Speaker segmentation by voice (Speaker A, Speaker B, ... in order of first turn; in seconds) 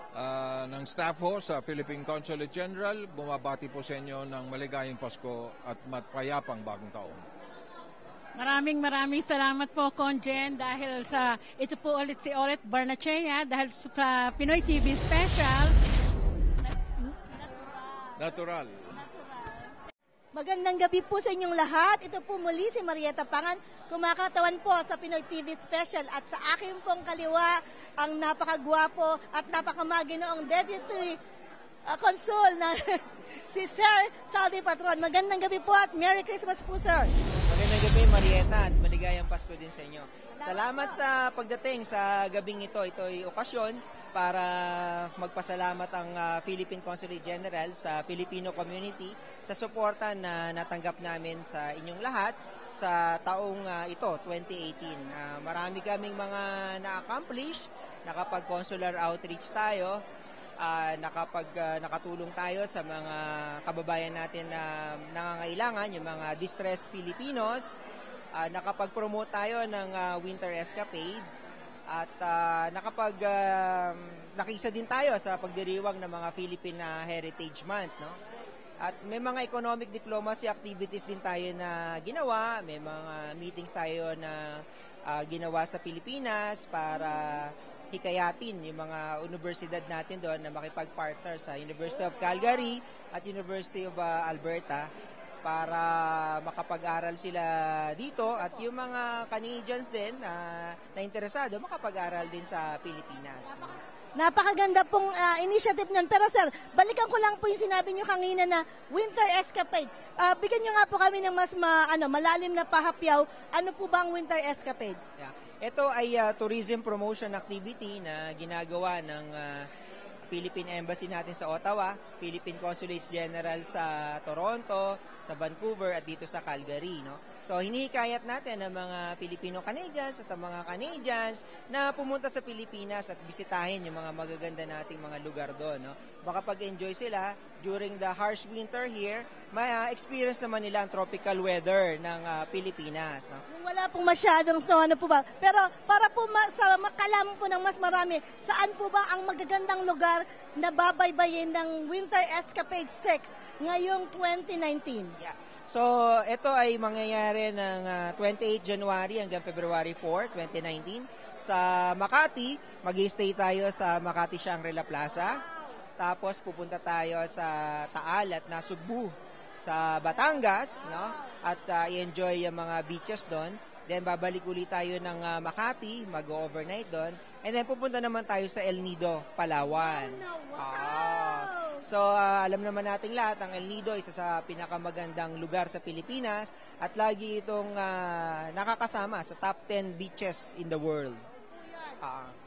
Speaker A: 0.1-7.2, 18.2-19.0
Speaker B: 8.3-15.8
Speaker C: 20.3-31.2, 31.9-37.1, 40.4-41.0, 103.5-115.0, 143.5-155.1, 170.8-171.3, 179.7-181.8
Speaker D: 37.5-60.0, 60.6-67.8, 68.3-71.2, 71.9-78.2, 78.8-94.9, 95.4-103.8, 115.2-119.7, 120.3-143.4, 155.2-165.4, 166.0-191.2, 192.0-192.3